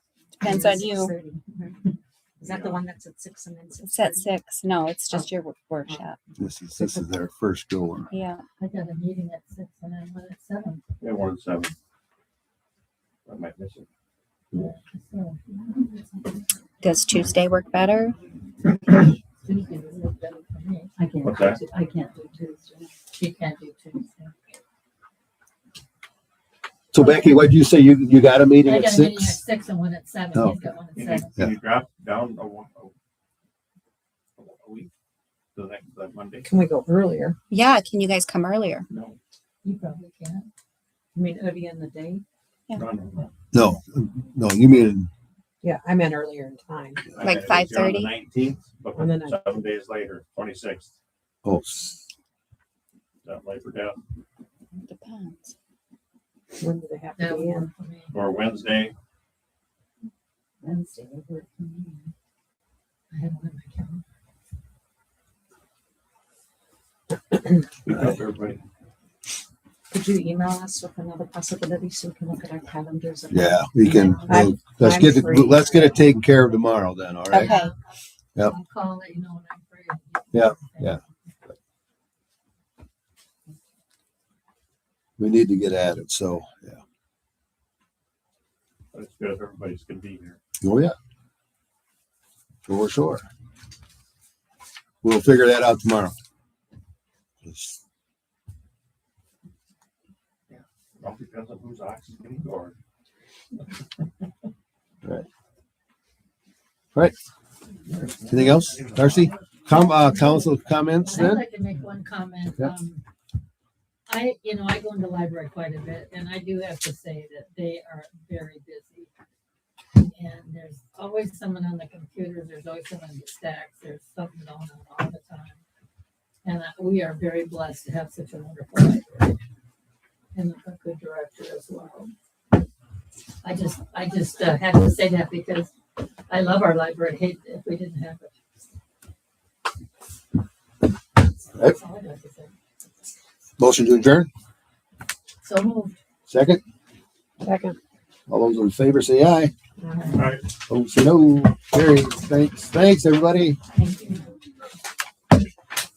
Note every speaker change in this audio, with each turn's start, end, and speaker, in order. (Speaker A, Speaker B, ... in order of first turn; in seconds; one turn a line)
Speaker A: 0.4-1.1
Speaker B: 0.4-1.8
Speaker B: 2.4-4.3
Speaker C: 2.4-2.8
Speaker A: 3.9-6.2
Speaker D: 6.4-8.1
Speaker A: 8.1-8.4
Speaker E: 8.6-10.8
Speaker C: 11.0-11.7
Speaker C: 13.2-13.8
Speaker E: 14.5-16.4
Speaker A: 16.8-18.1
Speaker E: 19.0-20.9
Speaker B: 21.0-22.9
Speaker C: 21.2-21.6
Speaker E: 23.1-24.4
Speaker D: 26.9-29.4
Speaker E: 28.6-31.3
Speaker D: 30.3-30.7
Speaker C: 30.9-32.9
Speaker C: 34.4-34.9
Speaker C: 35.5-36.5
Speaker F: 36.4-37.4
Speaker A: 37.5-38.9
Speaker C: 38.9-39.2
Speaker E: 39.6-40.5
Speaker B: 41.1-42.2
Speaker C: 42.7-43.3
Speaker D: 43.5-45.1
Speaker F: 45.6-47.1
Speaker C: 47.1-50.9
Speaker A: 47.2-48.1
Speaker F: 49.0-49.5
Speaker D: 51.4-52.0
Speaker C: 53.2-54.0
Speaker A: 54.9-55.5
Speaker F: 56.6-57.7
Speaker E: 57.2-58.1
Speaker C: 58.1-58.9
Speaker B: 60.6-62.1
Speaker E: 63.1-64.0
Speaker C: 67.8-68.6
Speaker B: 69.9-74.7
Speaker D: 73.3-77.6
Speaker F: 74.3-76.0
Speaker A: 77.3-77.7
Speaker E: 77.4-77.7
Speaker E: 78.4-81.0
Speaker D: 80.3-81.0
Speaker D: 85.2-86.8
Speaker C: 88.9-90.4
Speaker D: 90.6-90.9
Speaker D: 92.7-93.2
Speaker D: 95.0-96.1
Speaker D: 97.4-97.8
Speaker C: 100.5-102.7
Speaker C: 107.9-109.4
Speaker D: 108.3-111.4
Speaker E: 111.0-113.0
Speaker E: 114.1-119.1
Speaker E: 119.9-125.6
Speaker E: 126.4-129.4
Speaker E: 130.3-132.1
Speaker E: 133.4-135.7
Speaker E: 136.3-138.3
Speaker E: 141.5-142.5
Speaker D: 143.6-144.3
Speaker E: 145.4-145.9
Speaker D: 146.3-146.6
Speaker F: 147.4-147.8
Speaker D: 148.3-149.5
Speaker E: 149.8-150.3
Speaker C: 150.1-150.5
Speaker D: 150.7-153.6
Speaker E: 153.7-154.3